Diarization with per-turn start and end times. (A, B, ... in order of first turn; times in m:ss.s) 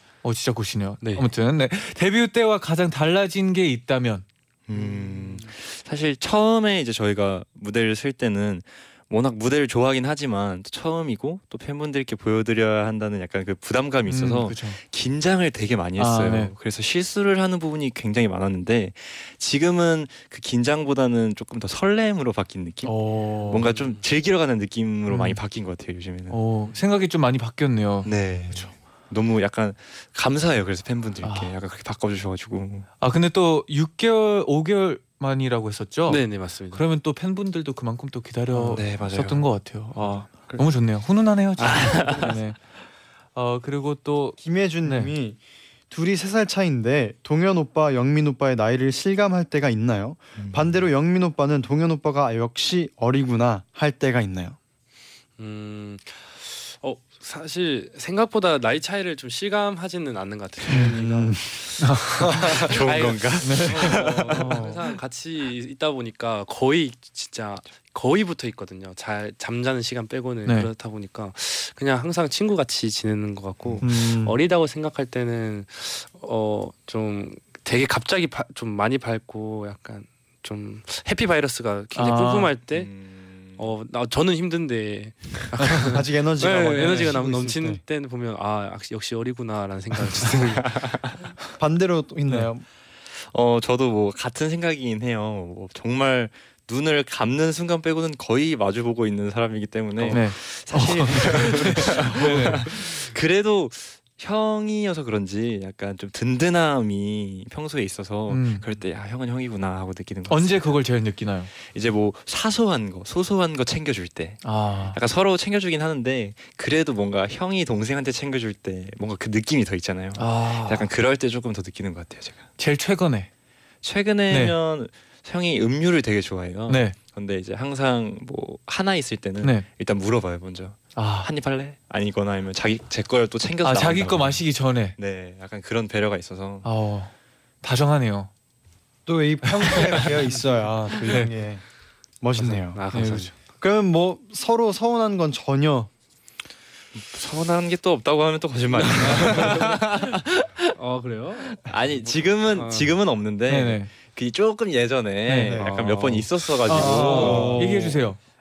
0:00.2-0:04.2 A
0:04.7-0:26.4 B
0:04.7-0:05.5 C
0:14.1-0:14.8 A
0:16.0-0:16.5 A
0:22.8-0:23.7 A
0:23.5-0:24.0 C
0:25.1-0:25.4 A
0:26.3-0:28.7 A
0:28.0-0:32.9 B
0:31.2-0:31.5 A
0:33.0-0:42.6 A
0:36.1-0:36.8 C
0:38.6-0:39.5 B
0:41.6-0:42.4 B
0:41.6-0:42.4 C
0:43.4-0:45.1 A
0:44.4-0:54.6 D
0:50.4-0:50.8 B
0:55.4-1:01.5 C
1:00.8-1:01.6 D
1:01.8-1:02.2 A
1:02.2-1:04.6 B
1:02.2-1:22.9 C
1:03.4-1:04.0 A
1:04.3-1:04.8 D
1:13.8-1:14.4 D
1:22.0-1:22.5 A
1:22.7-1:23.7 B
1:23.6-1:31.1 C
1:25.9-1:27.8 D
1:30.6-1:31.2 B
1:31.6-1:32.6 D
1:33.2-1:50.8 B
1:40.1-1:42.7 A
1:48.3-1:48.6 A
1:50.3-1:51.5 A
1:51.5-2:02.4 B
1:54.4-1:55.0 A
2:00.2-2:00.9 A
2:02.6-2:03.3 A
2:03.8-2:14.4 B
2:04.3-2:04.6 A
2:06.7-2:07.0 A
2:11.0-2:11.3 A
2:13.6-2:15.0 A
2:15.0-2:16.7 B
2:16.6-2:18.3 A
2:19.1-2:21.6 D
2:19.4-2:20.1 A
2:21.0-2:21.3 A
2:22.2-2:22.8 D
2:22.4-2:23.4 C
2:22.9-2:23.3 A
2:23.6-2:25.9 D
2:27.0-2:30.3 B
2:28.7-2:29.8 C
2:30.8-2:33.0 C
2:31.6-2:37.9 B
2:33.5-2:33.9 A
2:35.3-2:35.6 A
2:35.5-2:36.0 D
2:35.6-2:38.0 C
2:36.6-2:38.2 A
2:36.7-2:37.7 D